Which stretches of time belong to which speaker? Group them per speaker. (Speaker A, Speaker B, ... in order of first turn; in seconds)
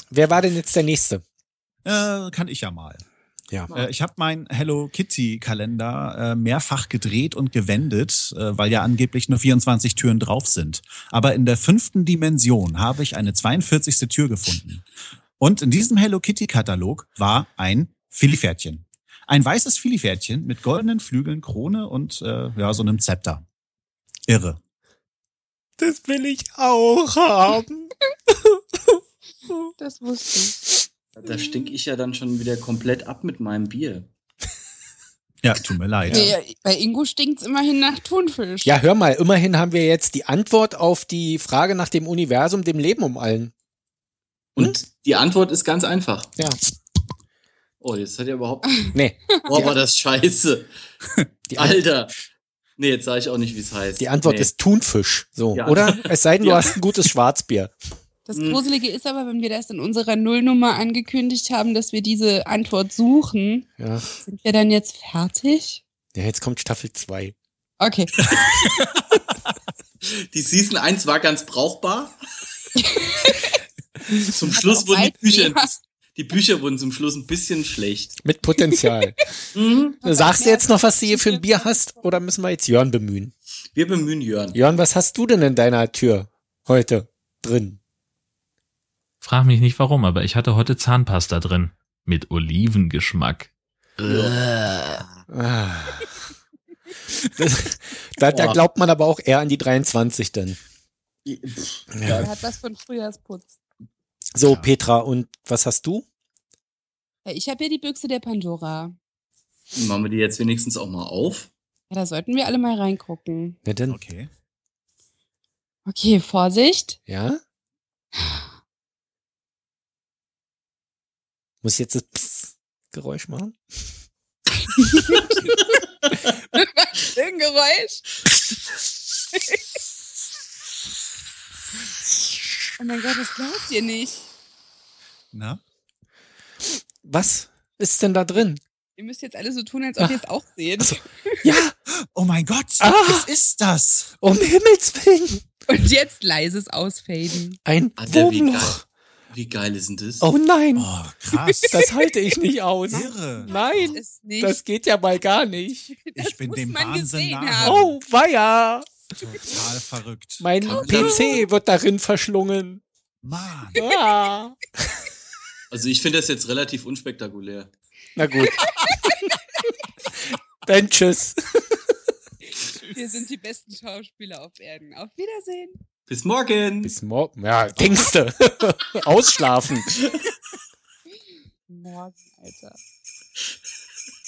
Speaker A: 0.1-1.2, 25.8-29.0, 38.6-43.5, 48.9-49.7, 51.5-51.8, 54.0-57.7, 63.8-64.1, 66.2-67.3, 78.2-79.2, 80.0-83.3, 84.5-87.8, 95.3-96.1, 97.4-100.6, 102.0-102.3, 104.4-106.0, 113.7-114.0, 117.1-117.4, 121.6-123.6, 137.0-138.6, 140.8-141.7, 142.8-143.3, 144.2-145.4, 147.7-148.8, 150.2-150.9, 151.7-155.9, 157.6-158.9, 160.4-162.8, 163.8-164.6, 168.2-169.0, 170.1-171.9, 176.8-179.9
Speaker B: 1.9-3.0, 3.7-14.8, 15.4-23.4, 24.3-24.6, 35.4-36.4, 104.4-104.7, 113.9-114.3, 135.3-135.6, 142.1-144.1, 150.8-151.8, 152.9-154.0, 156.2-158.0, 159.2-160.5, 163.2-163.8
Speaker C: 29.8-30.6, 36.1-38.7, 49.4-49.7, 58.3-63.7, 64.3-65.8, 67.8-68.3, 72.8-73.5, 74.1-75.7, 78.6-78.8, 80.0-82.2, 102.1-103.5, 107.2-109.0, 111.9-113.6, 115.9-117.0, 124.8-125.7, 126.5-128.1, 129.3-129.6, 132.8-134.3, 139.0-141.4, 145.7-147.6, 151.5-152.1, 153.4-154.6, 156.0-157.8, 160.8-161.4, 168.4-169.1, 172.5-175.8, 181.7-182.8
Speaker D: 31.2-34.1, 44.6-46.3, 47.8-48.9, 49.4-50.7, 51.5-52.1, 52.8-54.5, 55.5-56.8, 58.3-58.6, 70.0-72.2, 74.3-78.2, 79.5-80.0, 83.7-84.6, 94.0-94.4, 98.3-98.6, 101.3-102.3, 109.7-111.5, 148.0-148.8, 149.3-150.3, 160.6-161.4, 165.7-167.7, 176.1-177.0
Speaker E: 89.2-95.0